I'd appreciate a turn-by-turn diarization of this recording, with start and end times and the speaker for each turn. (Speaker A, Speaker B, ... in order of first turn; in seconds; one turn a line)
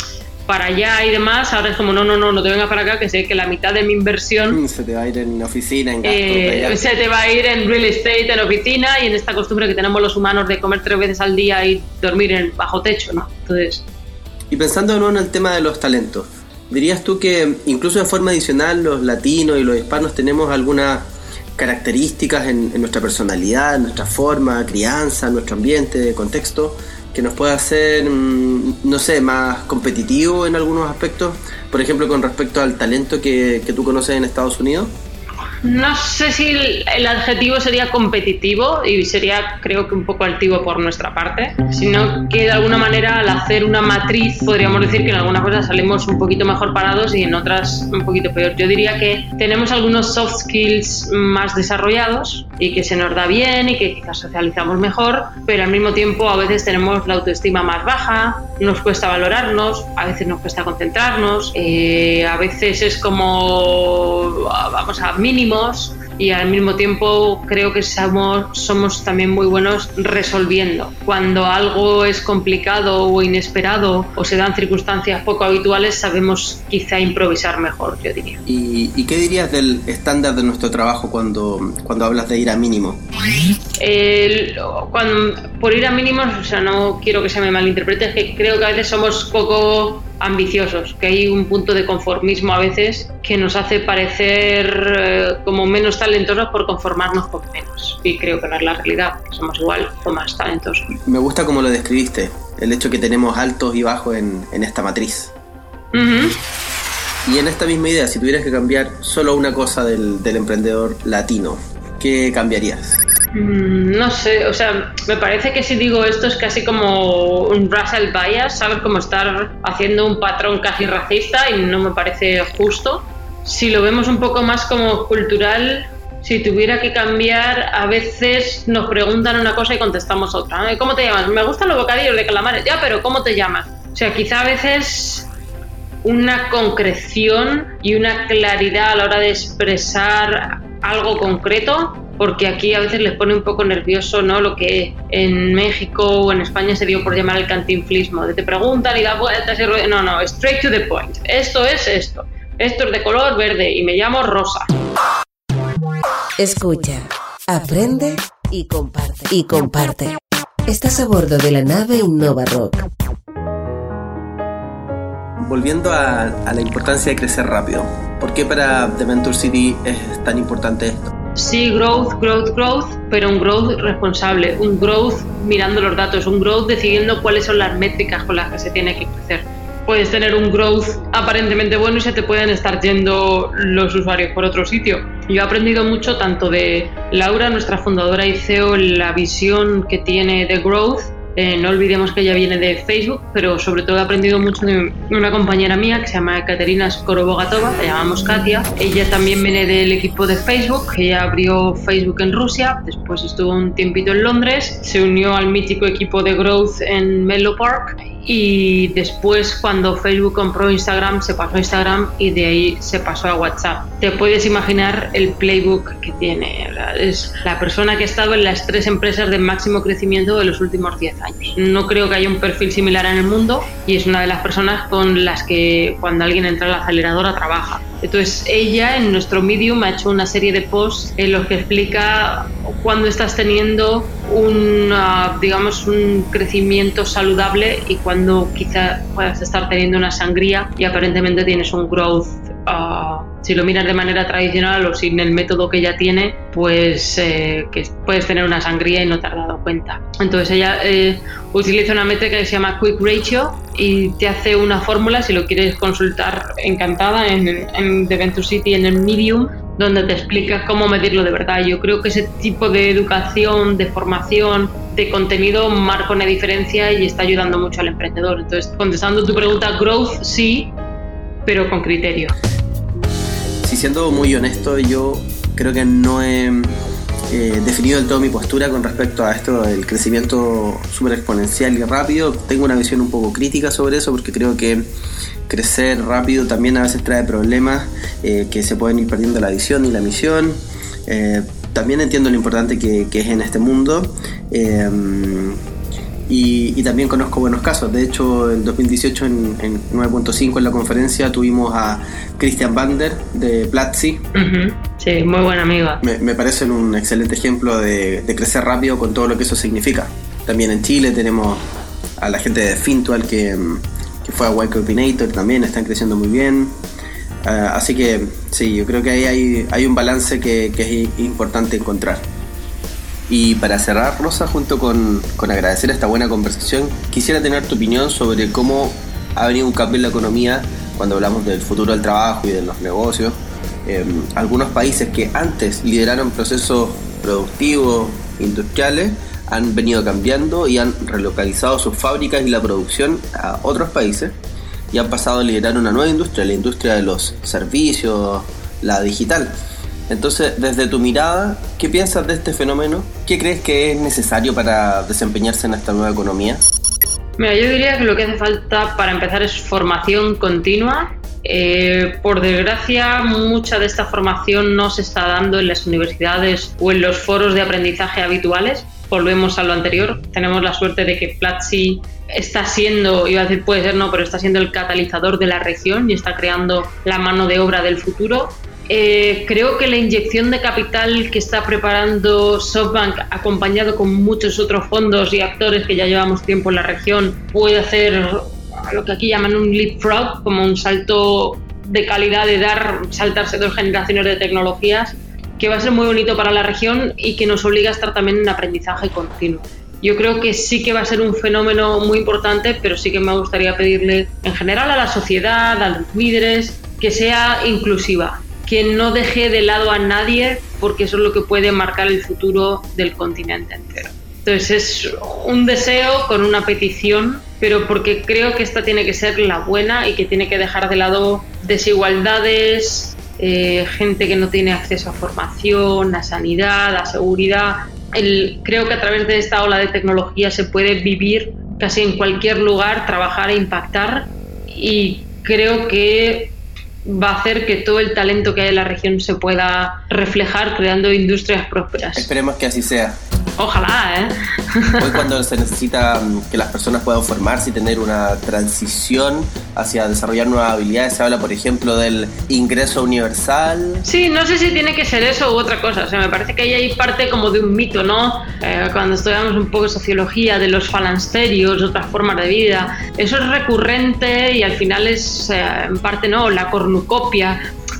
Speaker A: 0.5-4.6
Speaker B: 4.5-6.8
Speaker A: 6.0-13.8
Speaker B: 14.5-34.9
Speaker A: 35.6-78.4
Speaker B: 78.5-83.0
Speaker A: 83.8-100.9
Speaker B: 100.9-105.3
Speaker A: 105.9-106.4
Speaker B: 107.2-113.0
Speaker A: 113.3-135.3
Speaker A: 136.0-154.7
Speaker C: 156.4-162.9
Speaker B: 165.4-171.1
Speaker A: 171.3-270.7
Speaker A: 271.5-272.3
Speaker B: 273.6-276.8
Speaker B: 277.3-284.9
Speaker B: 285.5-295.6
Speaker B: 296.3-304.2
Speaker A: 304.3-306.0
Speaker B: 306.0-311.6
Speaker B: 312.2-316.8
Speaker B: 317.4-322.3
Speaker B: 323.3-344.4
Speaker B: 344.9-349.5
Speaker B: 350.1-356.6
Speaker A: 357.4-442.3
Speaker B: 442.2-443.2
Speaker A: 443.6-445.3
Speaker B: 445.0-454.1
Speaker A: 454.1-467.6